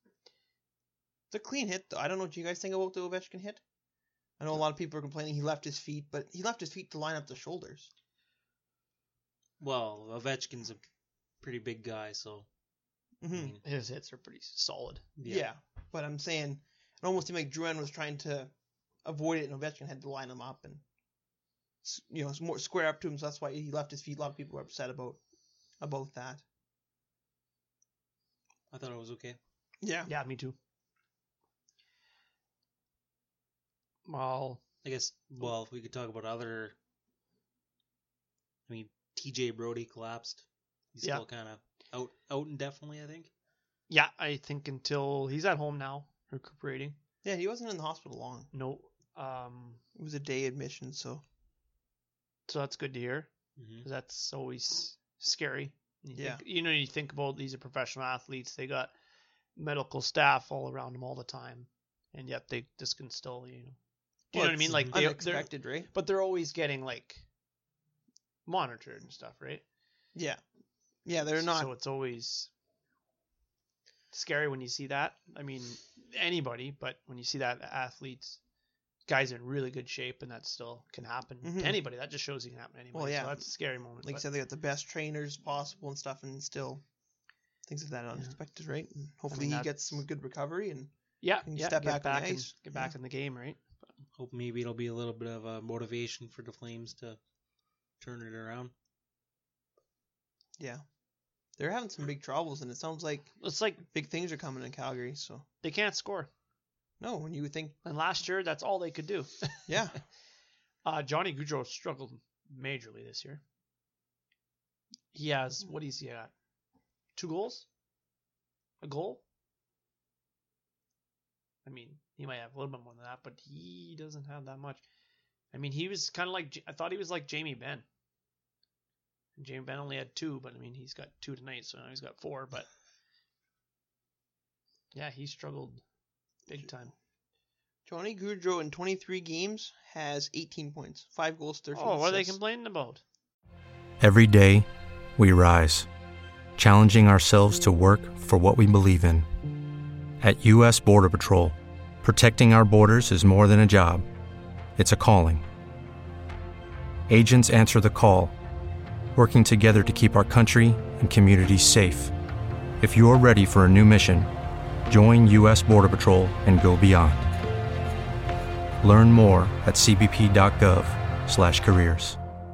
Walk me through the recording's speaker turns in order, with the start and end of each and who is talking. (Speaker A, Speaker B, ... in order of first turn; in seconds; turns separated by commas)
Speaker A: 1.3-3.6, Speaker A: 4.4-7.9, Speaker B: 9.6-10.8, Speaker B: 11.4-12.5, Speaker A: 13.2-13.6, Speaker B: 13.3-13.6, Speaker C: 13.6-15.1, Speaker B: 15.2-15.5, Speaker A: 15.2-18.5, Speaker A: 19.0-20.8, Speaker A: 21.8-25.2, Speaker A: 25.8-26.4, Speaker B: 28.7-29.4, Speaker A: 29.8-30.1, Speaker C: 30.1-30.6, Speaker C: 34.0-34.6, Speaker B: 34.8-36.8, Speaker B: 38.7-43.3, Speaker C: 43.9-47.0, Speaker A: 47.2-48.5, Speaker C: 48.5-49.8, Speaker A: 49.9-51.2, Speaker C: 52.5-53.3, Speaker B: 53.6-53.9, Speaker C: 53.8-58.9, Speaker A: 56.1-56.4, Speaker C: 59.5-63.8, Speaker C: 64.3-67.2, Speaker A: 64.3-65.9, Speaker C: 68.5-69.6, Speaker A: 70.1-70.4, Speaker A: 71.0-71.7, Speaker C: 71.3-72.5, Speaker C: 74.1-78.4, Speaker C: 79.0-84.2, Speaker A: 81.4-81.8, Speaker A: 82.9-86.8, Speaker A: 87.7-92.9, Speaker C: 89.3-90.0, Speaker C: 91.2-93.9, Speaker B: 94.2-97.2, Speaker B: 98.0-98.7, Speaker A: 100.6-100.8, Speaker A: 101.6-105.5, Speaker C: 103.4-103.8, Speaker C: 105.6-106.3, Speaker A: 107.0-107.8, Speaker C: 107.8-109.7, Speaker A: 109.7-110.0, Speaker C: 110.8-113.4, Speaker C: 115.1-116.3, Speaker C: 117.1-117.7, Speaker C: 118.8-119.2, Speaker C: 121.6-124.8, Speaker C: 125.5-127.8, Speaker C: 129.3-132.7, Speaker C: 134.9-135.8, Speaker C: 136.5-136.9, Speaker A: 137.8-142.4, Speaker C: 141.7-143.0, Speaker D: 144.0-145.9, Speaker D: 146.6-149.2, Speaker D: 150.2-154.0, Speaker D: 154.8-155.4, Speaker D: 157.1-158.3, Speaker D: 159.1-162.1, Speaker D: 162.8-164.3, Speaker D: 164.9-167.3, Speaker D: 168.8-172.2